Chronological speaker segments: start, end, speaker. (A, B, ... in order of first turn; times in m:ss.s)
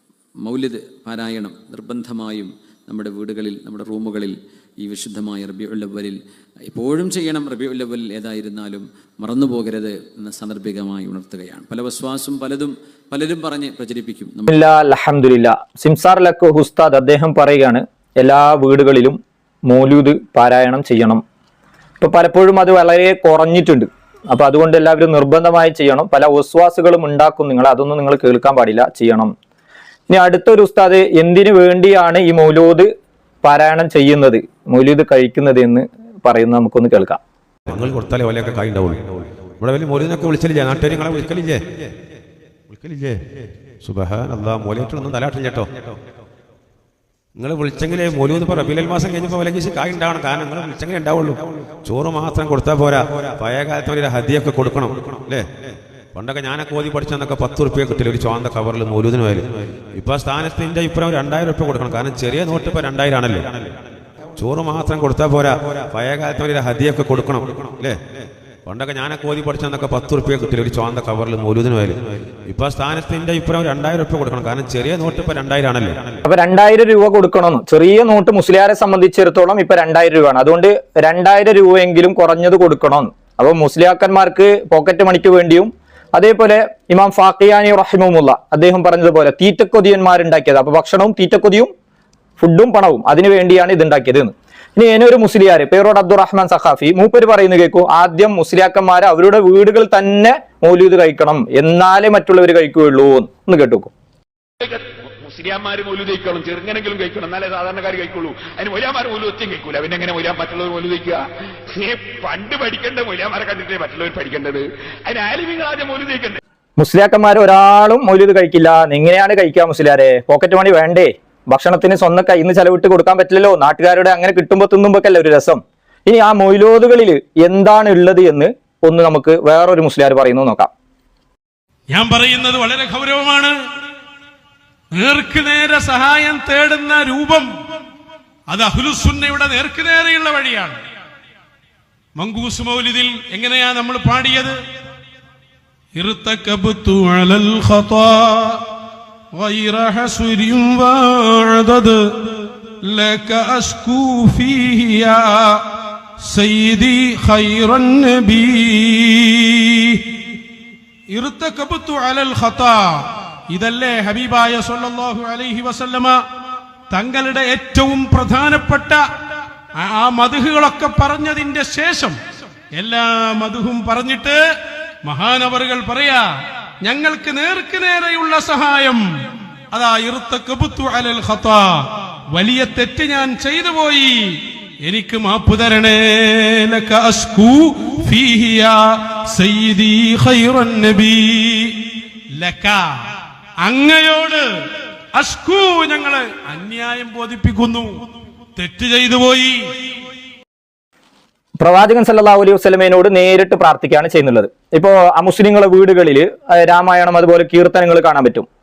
0:00.4-0:06.2 A
0:06.7-0:14.5 A
0:14.5-0:21.2 B
0:22.0-0:29.3 B
0:30.1-0:32.9 B
0:33.4-0:37.2 B
0:37.7-0:41.9 C
0:42.7-0:43.2 C
0:43.8-0:46.0 C
0:47.4-0:55.5 C
0:56.2-1:03.8 C
1:04.4-1:08.0 C
1:08.7-1:16.1 C
1:16.3-1:31.7 B
1:32.4-1:43.9 B
1:44.6-1:56.4 D
1:56.8-2:10.7 B
2:11.9-2:13.5 E
2:15.0-2:17.5 E
2:18.5-2:20.8 E
2:22.2-2:24.6 E
2:26.0-2:28.6 E
2:29.4-2:32.0 E
2:32.9-2:35.6 E
2:36.3-2:40.0 E
2:41.1-2:46.2 E
2:46.9-2:49.0 E
2:49.8-2:52.2 E
2:52.8-2:54.4 E
2:55.1-2:56.2 E
2:56.8-2:59.0 E
2:59.7-3:01.8 E
3:02.3-3:04.2 E
3:04.9-3:11.8 E
3:12.4-3:12.8 E
3:13.6-3:14.4 E
3:15.2-3:18.0 E
3:18.6-3:19.6 E
3:21.6-3:28.5 B